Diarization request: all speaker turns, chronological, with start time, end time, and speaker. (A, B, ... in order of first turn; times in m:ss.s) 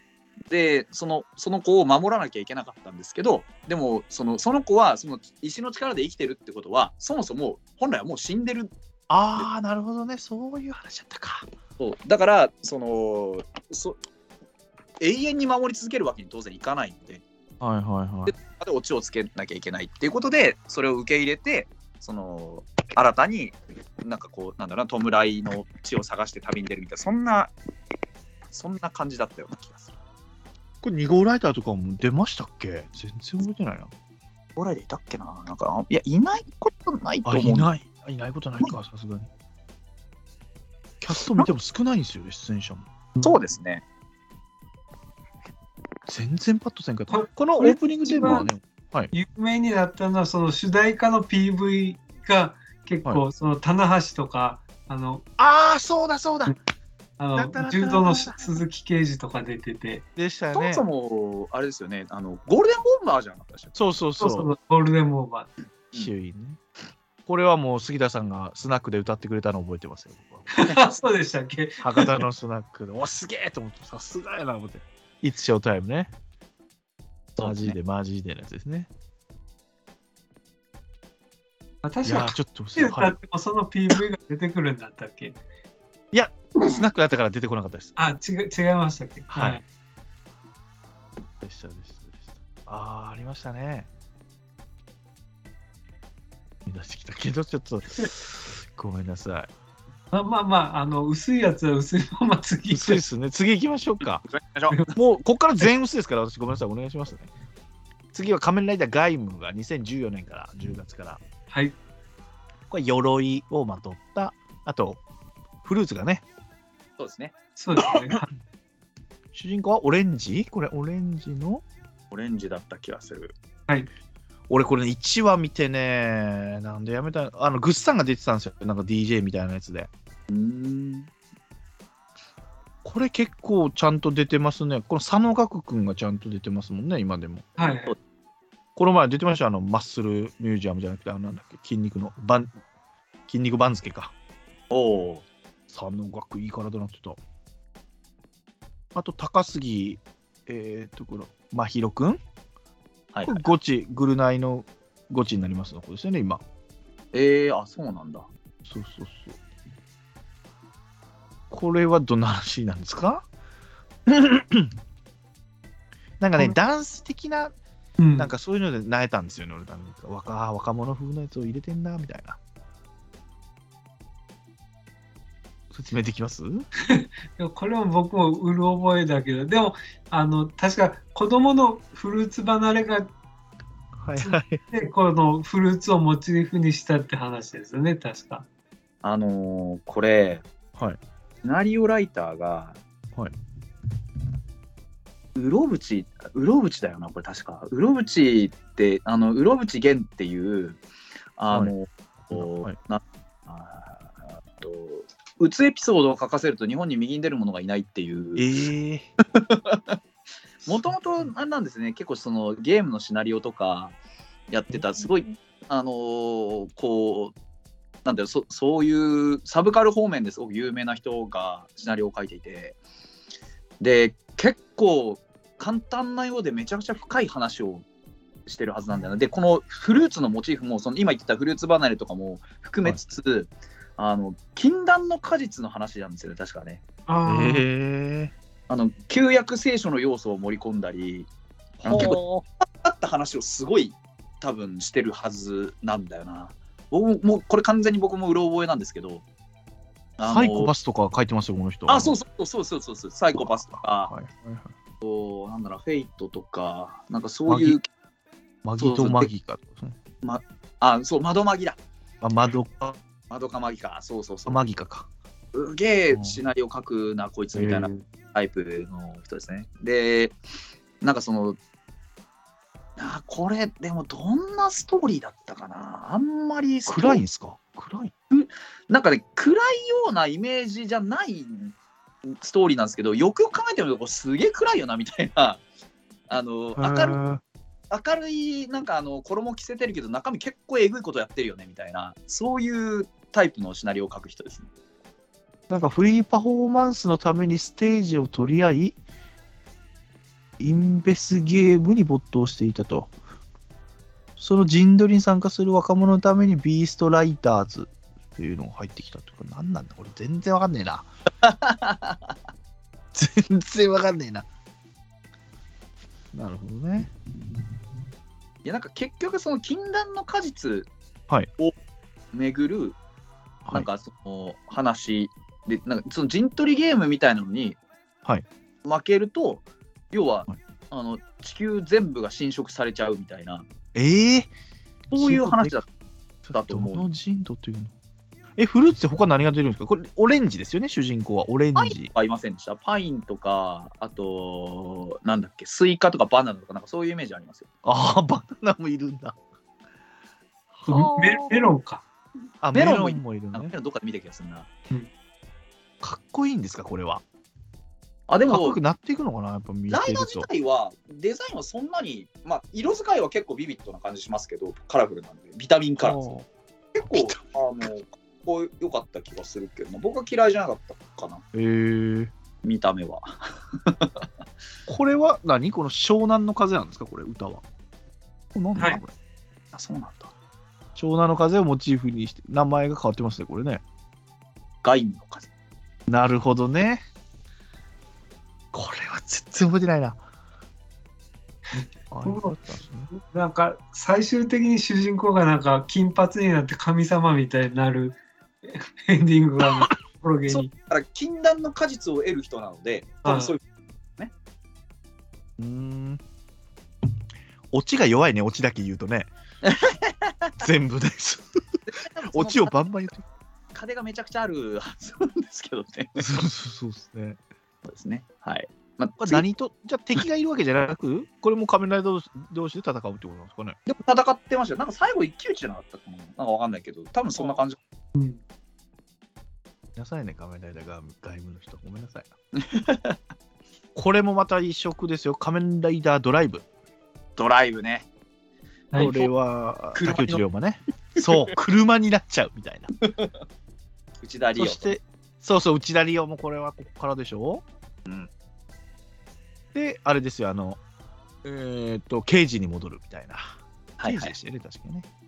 0:00.5-0:08.7 A
0:09.1-0:11.5 B
0:11.8-0:14.0 A
0:15.0-0:17.2 A
0:17.6-0:18.3 B
0:18.3-0:27.5 A
0:28.5-0:29.9 A
0:30.8-0:33.9 B
0:34.6-0:37.7 A
0:37.3-0:39.3 B
0:41.0-0:42.9 B
0:43.2-0:43.8 A
0:46.1-0:49.1 B
0:47.1-0:48.5 C
0:49.1-0:55.2 C
0:55.4-0:56.6 B
0:57.2-1:00.0 C
0:57.3-0:58.6 B
1:00.2-1:00.8 B
1:00.5-1:03.8 A
1:03.8-1:04.5 B
1:04.2-1:05.5 C
1:05.9-1:06.6 B
1:07.3-1:10.5 B
1:10.5-1:12.2 C
1:11.8-1:16.1 B
1:17.4-1:17.8 A
1:17.4-1:18.9 B
1:21.8-1:25.4 C
1:22.0-1:23.2 B
1:26.1-1:28.0 B
1:28.0-1:29.6 C
1:29.3-1:29.6 B
1:31.4-1:33.9 B
1:36.7-1:39.5 B
1:40.1-1:43.0 C
1:42.7-1:44.2 B
1:44.2-1:44.8 A
1:44.9-1:47.3 B
1:48.1-1:51.2 B
1:51.5-1:51.8 C
1:52.7-1:55.0 B
1:55.6-1:56.2 B
1:57.0-1:57.4 A
1:57.6-1:58.3 C
1:59.3-2:01.6 B
2:02.1-2:03.3 A
2:04.5-2:09.9 B
2:10.3-2:11.1 A
2:12.8-2:17.6 B
2:17.6-2:18.0 C
2:18.8-2:22.5 B
2:23.3-2:24.1 B
2:24.7-2:25.3 A
2:25.7-2:27.2 B
2:29.0-2:32.2 B
2:33.1-2:33.5 A
2:33.2-2:36.4 B
2:37.1-2:38.3 A
2:38.7-2:39.4 B
2:41.5-2:43.3 B
2:44.1-2:44.8 B
2:46.2-2:47.5 B
2:48.0-2:48.3 C
2:48.2-2:52.4 B
2:55.7-2:56.7 B
2:56.9-3:03.1 C
3:04.0-3:04.6 B
3:04.2-3:08.5 C
3:09.0-3:10.4 A
3:11.4-3:12.8 A
3:15.4-3:20.8 A
3:21.4-3:28.5 A
3:22.3-3:22.8 B
3:28.4-3:29.1 B
3:29.3-3:30.0 A
3:30.6-3:34.0 A
3:34.5-3:37.3 A
3:34.7-3:35.0 B
3:38.0-3:42.8 A
3:43.8-3:47.8 A
3:48.5-3:56.8 A
3:57.1-3:57.6 C
3:57.3-3:58.3 B
3:58.7-4:01.3 A
4:01.8-4:02.4 B
4:01.8-4:02.2 A
4:02.8-4:09.2 A
4:10.2-4:10.7 A
4:10.2-4:12.2 B
4:11.9-4:14.1 A
4:13.4-4:14.7 B
4:15.0-4:17.9 A
4:17.5-4:17.8 B
4:18.6-4:20.0 B
4:18.8-4:19.3 A
4:20.2-4:21.8 A
4:22.2-4:23.0 B
4:23.3-4:24.7 A
4:24.5-4:25.1 B
4:25.5-4:30.4 A
4:26.1-4:26.4 B
4:27.5-4:28.0 B
4:31.0-4:31.6 A
4:33.0-4:37.2 A
4:36.9-4:38.1 B
4:38.3-4:41.7 A
4:42.3-4:45.6 A
4:46.3-4:47.2 A
4:46.8-4:47.4 B
4:47.9-4:54.7 A
4:55.7-4:59.0 B
5:00.6-5:03.1 B
5:04.4-5:11.1 B
5:11.4-5:12.3 A
5:13.1-5:14.5 B
5:16.3-5:17.1 B
5:18.6-5:20.9 A
5:22.3-5:23.0 A
5:23.7-5:27.8 A
5:28.8-5:33.7 A
5:34.0-5:34.5 B
5:35.1-5:35.8 B
5:35.1-5:35.9 A
5:36.4-5:37.9 B
5:36.5-5:37.1 A
5:38.6-5:42.1 B
5:41.8-5:47.7 A
5:47.8-5:49.4 B
5:50.7-5:51.7 B
5:50.9-5:52.0 C
5:52.6-5:53.7 B
5:52.7-5:54.7 A
5:56.0-5:57.2 B
5:58.3-5:58.8 A
5:58.5-6:00.5 B
5:59.9-6:06.2 A
6:06.0-6:06.5 B
6:07.0-6:11.4 A
6:07.1-6:07.4 B
6:11.5-6:12.3 B
6:12.6-6:14.1 A
6:14.9-6:17.6 B
6:18.6-6:19.1 B
6:19.7-6:20.3 A
6:21.0-6:23.8 B
6:24.8-6:25.5 A
6:26.1-6:27.0 B
6:28.7-6:30.2 B
6:31.8-6:32.6 C
6:32.1-6:33.1 B
6:33.1-6:40.7 C
6:40.5-6:43.6 A
6:43.2-6:43.5 C
6:45.6-6:46.2 B
6:47.7-6:49.3 B
6:49.6-6:50.5 A
6:50.6-6:51.6 B
6:51.9-6:52.7 A
6:52.3-6:53.2 B
6:53.7-6:56.3 A
6:56.2-6:57.4 B
6:57.8-6:59.5 A
6:59.2-7:03.8 B
7:03.9-7:07.8 A
7:08.2-7:08.4 C
7:10.0-7:12.3 B
7:12.6-7:13.2 A
7:14.0-7:16.6 B
7:17.4-7:18.1 A
7:18.9-7:19.3 C
7:19.0-7:22.9 B
7:20.0-7:20.4 A
7:23.0-7:23.3 A
7:24.2-7:25.0 A
7:24.6-7:27.6 B
7:29.7-7:30.8 B
7:31.4-7:33.4 B
7:34.0-7:34.4 A
7:34.0-7:35.1 B